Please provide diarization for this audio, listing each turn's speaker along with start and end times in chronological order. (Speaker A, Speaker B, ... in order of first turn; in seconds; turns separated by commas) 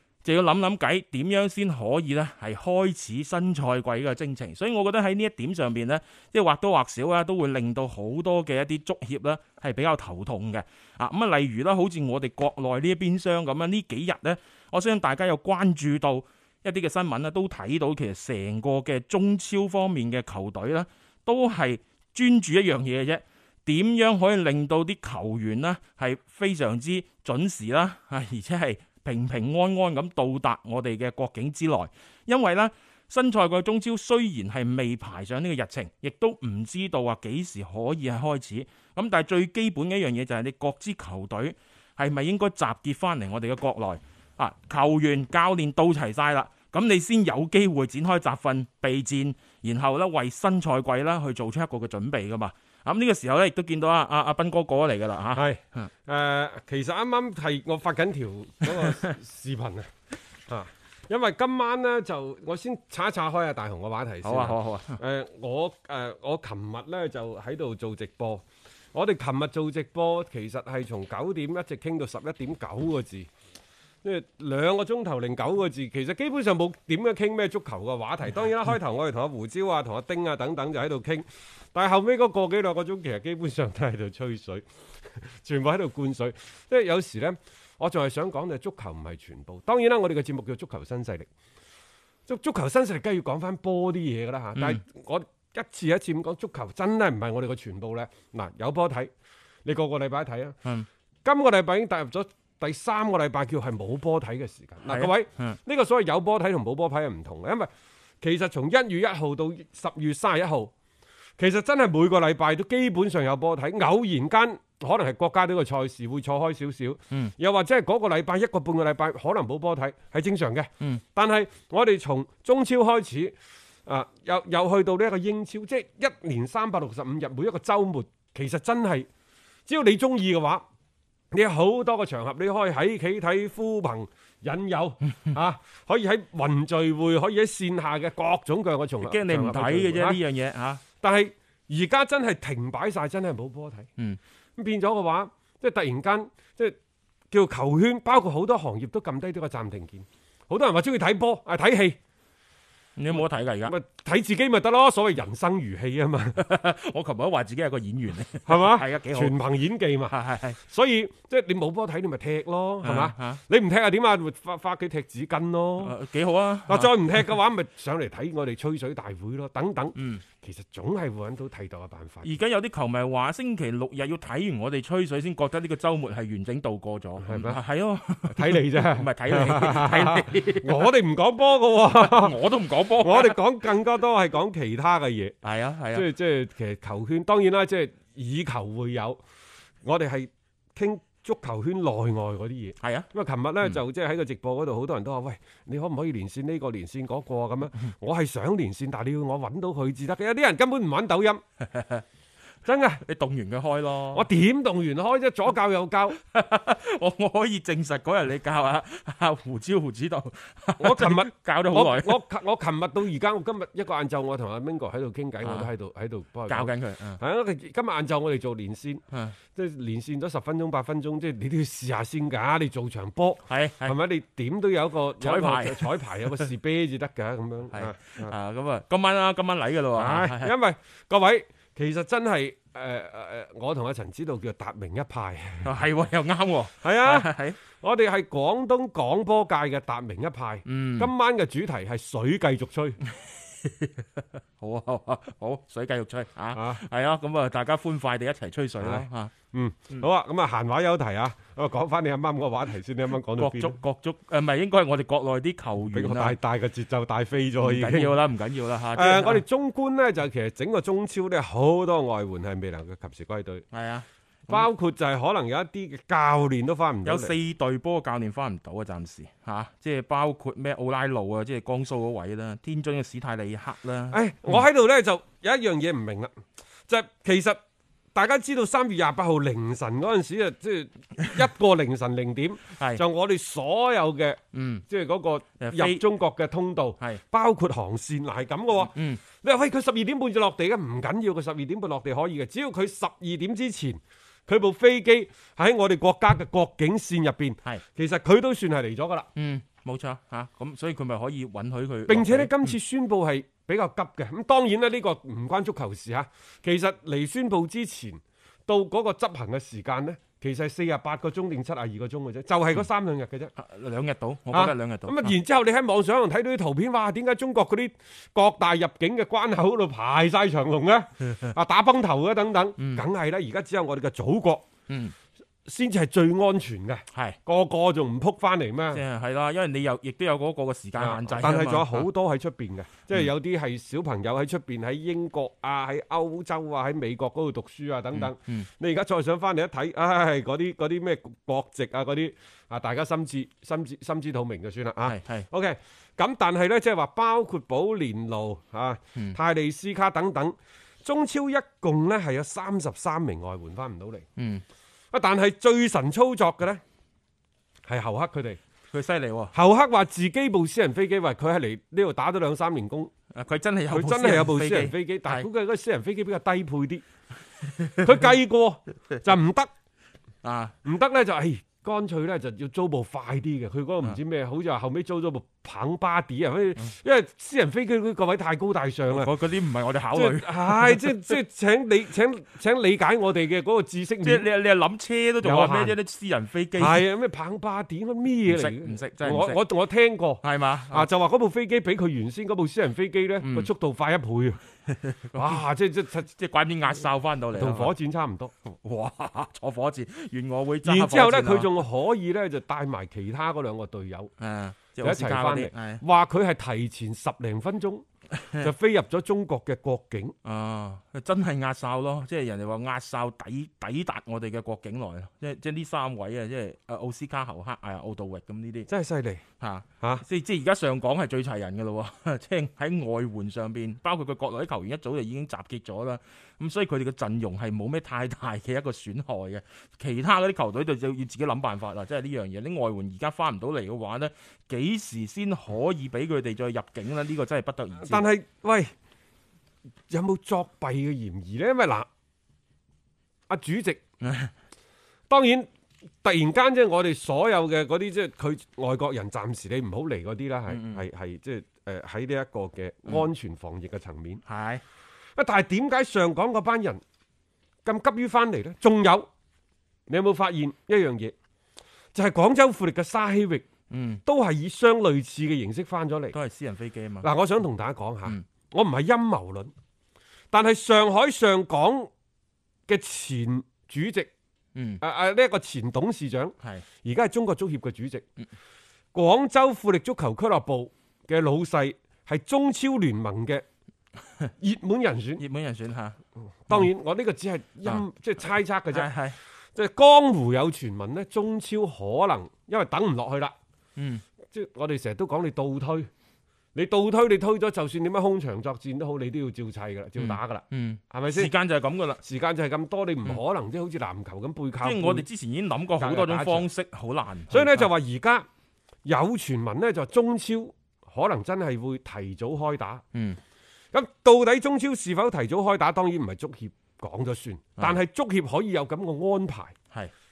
Speaker A: 0.2-55.9, Speaker B: 55.3-59.9, Speaker B: 60.5-73.3, Speaker A: 64.2-65.0, Speaker B: 74.0-91.3, Speaker B: 92.3-99.1, Speaker A: 94.5-94.8, Speaker B: 99.6-100.6, Speaker B: 101.2-107.7, Speaker A: 104.8-105.6, Speaker B: 108.2-110.7, Speaker B: 111.4-129.1, Speaker B: 129.7-130.7, Speaker B: 131.3-140.2, Speaker A: 139.0-140.8, Speaker B: 141.0-143.9, Speaker B: 144.6-146.8, Speaker B: 147.3-152.0, Speaker A: 153.0-153.8, Speaker B: 153.1-156.4, Speaker A: 156.4-159.3, Speaker B: 158.4-165.9, Speaker A: 160.1-160.6, Speaker A: 162.8-163.4, Speaker A: 165.8-167.0, Speaker B: 166.7-172.3, Speaker A: 169.9-170.2, Speaker A: 172.2-180.9, Speaker B: 177.2-177.6, Speaker B: 178.3-182.3, Speaker A: 181.9-183.4, Speaker B: 183.0-185.4, Speaker A: 185.4-186.1, Speaker B: 185.9-189.2, Speaker B: 189.8-201.4, Speaker A: 192.8-193.1, Speaker A: 201.6-202.0, Speaker B: 202.6-203.0, Speaker A: 203.0-204.2, Speaker B: 204.1-206.2, Speaker A: 206.3-212.2, Speaker B: 210.8-228.3, Speaker A: 215.4-215.7, Speaker A: 216.5-217.2, Speaker A: 223.5-224.0, Speaker A: 225.2-226.0, Speaker A: 227.7-230.5, Speaker B: 229.9-235.7, Speaker A: 235.6-237.6, Speaker B: 236.8-243.0, Speaker A: 240.7-241.1, Speaker A: 243.1-249.3, Speaker B: 246.5-246.8, Speaker B: 248.8-253.8, Speaker A: 253.4-256.4, Speaker B: 255.9-258.2, Speaker A: 257.6-259.4, Speaker B: 258.9-263.6, Speaker A: 263.7-264.7, Speaker B: 264.5-267.3, Speaker A: 267.0-274.6, Speaker B: 274.1-277.6, Speaker B: 278.1-299.3, Speaker A: 282.8-283.0, Speaker A: 284.5-284.8, Speaker A: 285.6-286.0, Speaker A: 288.9-289.2, Speaker A: 299.4-302.6, Speaker B: 302.1-313.5, Speaker A: 313.6-315.3, Speaker B: 314.5-324.7, Speaker A: 322.8-323.0, Speaker A: 324.9-325.1, Speaker B: 325.6-329.0, Speaker A: 328.9-332.1, Speaker B: 331.0-354.2, Speaker A: 338.1-338.7, Speaker A: 345.0-345.5, Speaker A: 354.4-354.6, Speaker B: 355.1-356.8, Speaker B: 357.9-358.6, Speaker A: 358.9-359.5, Speaker B: 359.5-363.1, Speaker A: 363.3-365.5, Speaker B: 363.9-367.0, Speaker A: 367.7-368.1, Speaker B: 368.0-369.7, Speaker A: 370.4-370.7, Speaker B: 370.8-379.3, Speaker A: 379.1-381.1, Speaker B: 380.1-384.5, Speaker A: 384.2-387.0, Speaker B: 385.4-386.0, Speaker B: 386.8-394.6, Speaker A: 388.5-389.6, Speaker A: 390.4-391.1, Speaker A: 393.4-393.7, Speaker A: 394.9-395.6, Speaker B: 395.3-396.3, Speaker A: 396.3-397.9, Speaker B: 397.5-398.5, Speaker A: 398.6-401.7, Speaker B: 400.8-404.3, Speaker A: 404.4-406.0, Speaker B: 405.0-408.1, Speaker A: 408.4-408.7, Speaker B: 408.6-410.3, Speaker A: 410.4-418.9, Speaker B: 418.9-419.4, Speaker A: 419.6-438.2, Speaker B: 438.0-438.9, Speaker B: 440.1-442.1, Speaker B: 443.5-444.0, Speaker A: 444.2-444.5, Speaker B: 445.3-445.7, Speaker B: 446.2-454.4, Speaker A: 450.7-451.0, Speaker A: 454.4-454.8, Speaker B: 455.4-457.0, Speaker B: 457.8-459.3, Speaker B: 460.1-461.3, Speaker B: 462.1-463.6, Speaker A: 463.9-464.2, Speaker B: 464.2-466.4, Speaker A: 466.3-467.3, Speaker B: 467.2-469.7, Speaker B: 470.5-472.1, Speaker B: 472.9-474.3, Speaker A: 474.7-475.0, Speaker B: 475.0-478.2, Speaker B: 479.1-483.6, Speaker B: 484.6-485.4, Speaker A: 485.4-486.2, Speaker B: 486.6-489.1, Speaker A: 488.9-489.4, Speaker B: 489.7-493.5, Speaker A: 494.0-494.2, Speaker B: 494.5-496.1, Speaker B: 496.7-501.5, Speaker A: 500.2-502.2, Speaker B: 502.2-505.2, Speaker A: 504.8-507.9, Speaker B: 506.0-506.7, Speaker B: 507.5-508.5, Speaker B: 509.0-513.0, Speaker A: 513.1-513.4, Speaker B: 513.9-519.7